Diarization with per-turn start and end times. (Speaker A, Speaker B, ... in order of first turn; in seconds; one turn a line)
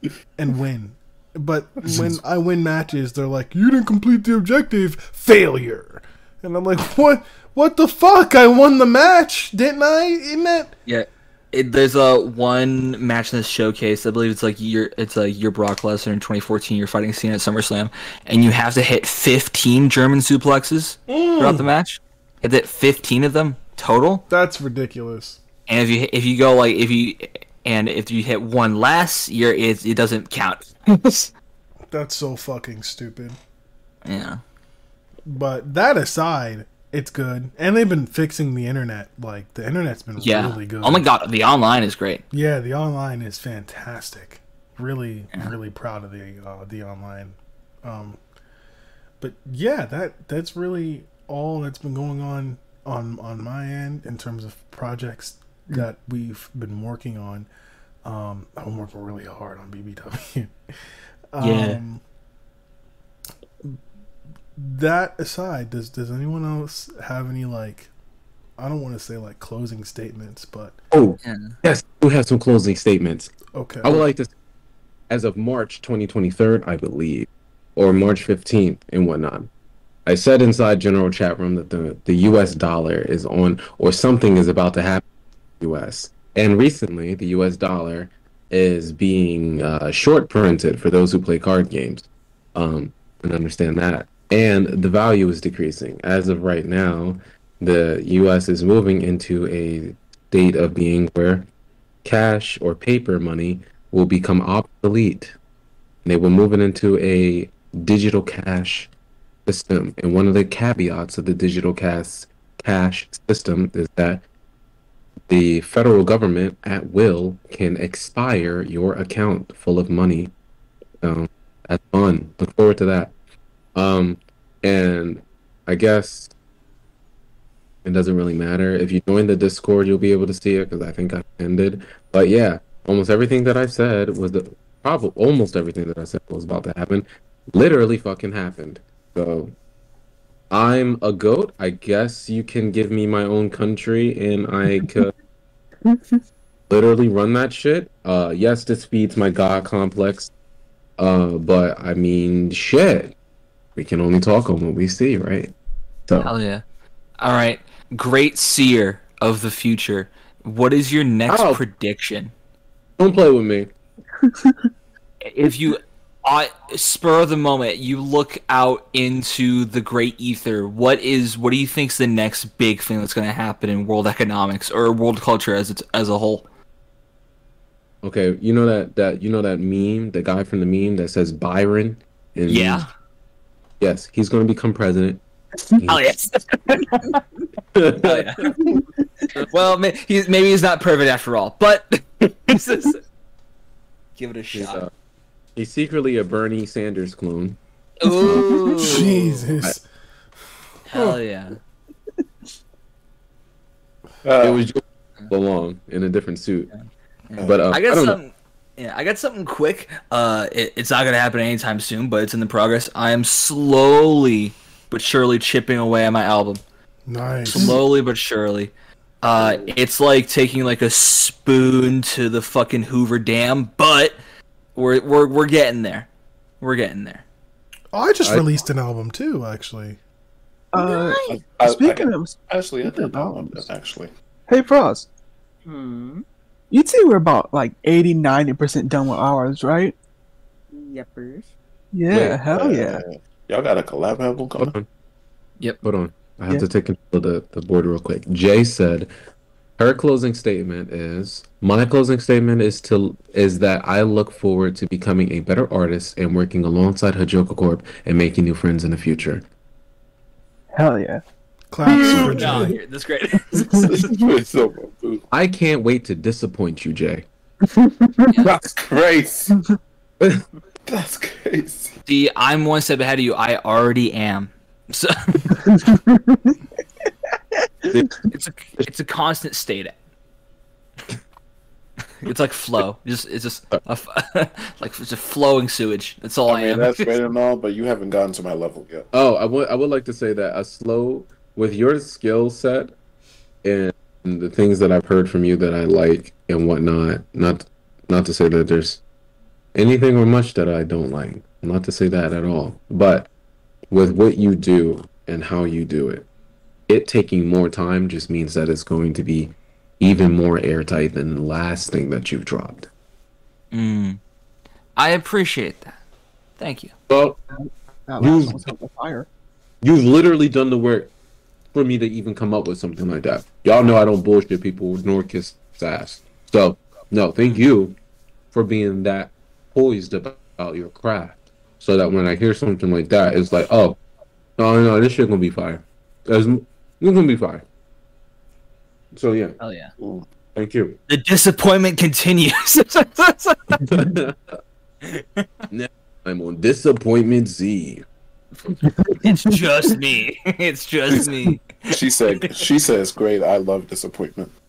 Speaker A: 0.4-10.7
Speaker B: 10.9-24.2
Speaker A: 21.1-21.7
Speaker A: 24.3-25.4
Speaker B: 25.7-31.3
Speaker A: 31.9-33.4
Speaker B: 34.0-34.4
Speaker A: 35.3-41.0
Speaker B: 40.2-42.2
Speaker A: 42.3-48.2
Speaker A: 49.2-57.5
Speaker A: 58.0-60.5
Speaker A: 61.3-62.0
Speaker B: 61.4-61.8
Speaker A: 64.6-67.9
Speaker A: 68.6-70.8
Speaker C: 70.9-74.3
Speaker B: 71.2-71.5
Speaker A: 73.5-74.0
Speaker C: 75.1-79.5
Speaker C: 80.1-85.0
Speaker C: 85.6-101.5
Speaker C: 102.0-105.4
Speaker C: 106.0-108.9
Speaker C: 109.5-114.2
Speaker C: 115.3-120.3
Speaker C: 121.0-123.1
Speaker C: 123.8-126.3
Speaker C: 127.8-139.6
Speaker C: 140.5-145.1
Speaker D: 145.8-146.2
Speaker C: 146.7-150.3
Speaker C: 151.0-153.2
Speaker C: 153.8-155.5
Speaker B: 156.2-156.6
Speaker B: 157.2-162.3
Speaker C: 161.3-161.6
Speaker C: 163.0-163.7
Speaker D: 164.2-164.7
Speaker B: 165.3-176.5
Speaker C: 178.0-182.8
Speaker B: 182.5-182.9
Speaker C: 183.8-185.2
Speaker B: 185.7-187.2
Speaker C: 187.7-188.3
Speaker B: 188.0-188.5
Speaker D: 188.6-189.3
Speaker B: 189.4-193.0
Speaker B: 194.2-194.9
Speaker C: 194.5-194.9
Speaker C: 195.6-197.6
Speaker B: 198.0-199.4
Speaker A: 198.8-199.8
Speaker B: 200.9-201.6
Speaker E: 204.2-204.6
Speaker C: 204.4-206.7
Speaker B: 206.7-216.6
Speaker C: 207.4-208.2
Speaker A: 217.1-217.8
Speaker B: 217.5-218.7
Speaker B: 219.2-224.2
Speaker E: 219.4-219.7
Speaker B: 224.8-226.1
Speaker B: 226.6-227.2
Speaker A: 227.9-230.0
Speaker D: 230.7-233.7
Speaker F: 230.8-231.4
Speaker E: 231.4-234.1
Speaker D: 234.5-235.1
Speaker F: 235.7-236.2
Speaker D: 236.7-239.9
Speaker F: 240.7-241.5
Speaker D: 241.9-243.0
Speaker C: 242.1-242.4
Speaker E: 242.5-244.7
Speaker C: 244.6-244.9
Speaker C: 245.8-249.1
Speaker C: 249.8-259.4
Speaker D: 260.7-261.2
Speaker A: 261.7-262.8
Speaker D: 261.9-262.6
Speaker B: 262.0-263.9
Speaker D: 263.6-264.1
Speaker E: 263.8-265.2
Speaker C: 265.3-267.3
Speaker D: 267.7-268.3
Speaker B: 268.3-268.6
Speaker E: 268.4-269.5
Speaker E: 270.9-271.9
Speaker B: 272.1-275.6
Speaker D: 275.6-276.6
Speaker D: 277.9-278.2
Speaker B: 278.3-279.9
Speaker B: 282.2-287.1
Speaker E: 286.5-289.1
Speaker C: 289.1-292.9
Speaker C: 293.6-299.0
Speaker C: 299.7-303.3
Speaker C: 303.9-306.3
Speaker C: 306.9-312.9
Speaker B: 313.7-314.2
Speaker B: 315.0-315.9
Speaker B: 316.6-316.9
Speaker C: 317.1-317.4
Speaker D: 318.1-319.3
Speaker C: 318.2-318.6
Speaker C: 319.8-321.1
Speaker C: 321.7-328.0
Speaker C: 328.5-334.0
Speaker C: 334.6-337.6
Speaker C: 339.1-339.6
Speaker B: 339.6-339.9
Speaker E: 340.0-340.2
Speaker C: 340.6-341.0
Speaker B: 341.1-344.1
Speaker C: 343.9-344.6
Speaker B: 345.0-345.5
Speaker C: 345.7-348.1
Speaker B: 349.2-352.6
Speaker E: 351.9-354.5